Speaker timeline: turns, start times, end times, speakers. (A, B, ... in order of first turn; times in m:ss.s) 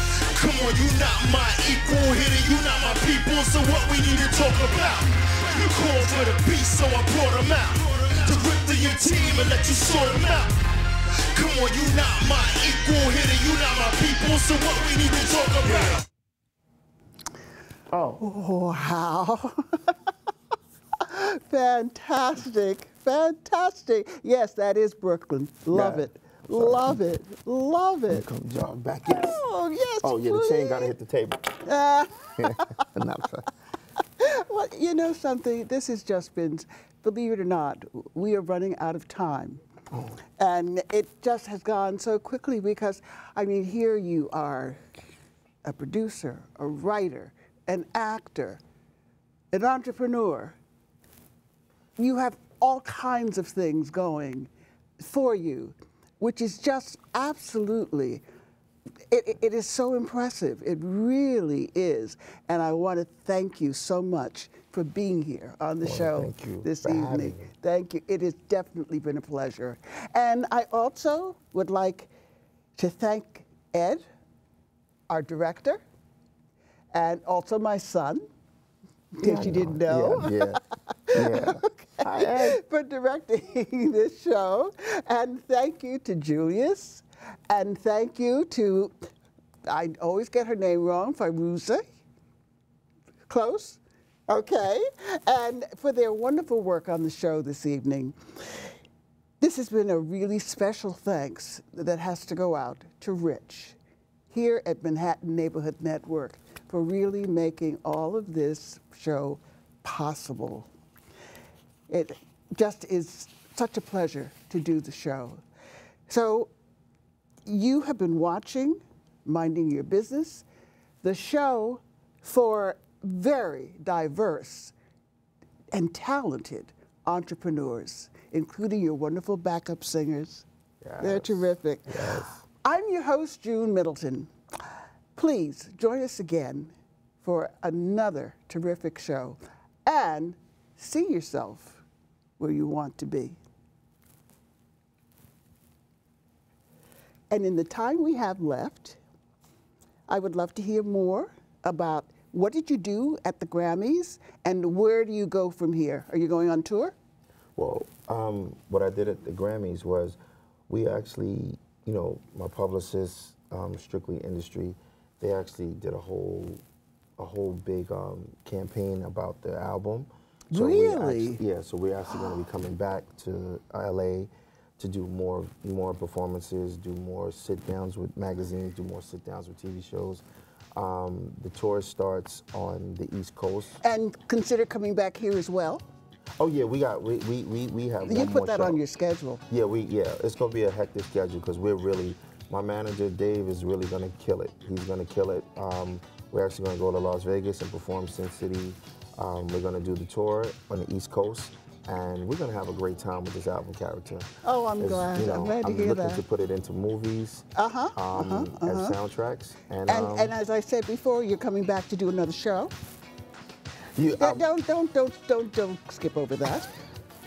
0:00.3-0:10.6 A
0:11.3-0:16.0 A
0:17.9-0:18.2 B
0:18.2-0:19.9 C
0:21.0-0:28.3 C
0:25.7-0:27.0 B
0:28.1-0:29.4 B
0:29.3-0:30.9 C
0:30.0-0:31.6 B
0:31.6-0:32.8 C
0:32.4-0:33.5 B
0:34.2-0:39.6 C
0:39.9-0:40.2 B
0:40.4-0:44.8 C
0:45.6-0:48.6 C
0:49.5-0:50.6 C
0:52.0-0:58.2 C
0:59.1-1:12.1 C
1:05.8-1:07.5 B
1:12.8-1:14.0 C
1:15.1-1:15.8 C
1:16.9-1:18.2 C
1:19.2-1:20.5 C
1:19.2-1:20.6 B
1:21.1-1:28.9 C
1:21.1-1:22.6 B
1:29.7-1:31.9 C
1:33.3-1:38.7 C
1:39.4-1:43.8 C
1:44.3-1:50.7 C
1:51.9-1:55.4 C
1:56.1-1:56.5 C
1:57.5-2:00.4 C
2:01.0-2:04.7 C
2:05.7-2:10.5 C
2:10.8-2:12.4 B
2:11.0-2:14.3 C
2:15.2-2:21.8 C
2:22.4-2:23.4 C
2:27.3-2:29.0 C
2:30.1-2:37.0 C
2:37.6-2:40.2 B
2:40.7-2:46.6 B
2:47.2-3:03.8 B
2:50.5-2:51.4 C
3:03.8-3:05.9 C
3:06.4-3:08.8 B
3:08.0-3:09.4 C
3:09.5-3:30.4 B
3:24.4-3:26.2 C
3:27.6-3:29.0 C
3:29.9-3:32.7 C
3:34.0-3:34.4 B
3:34.2-3:36.7 C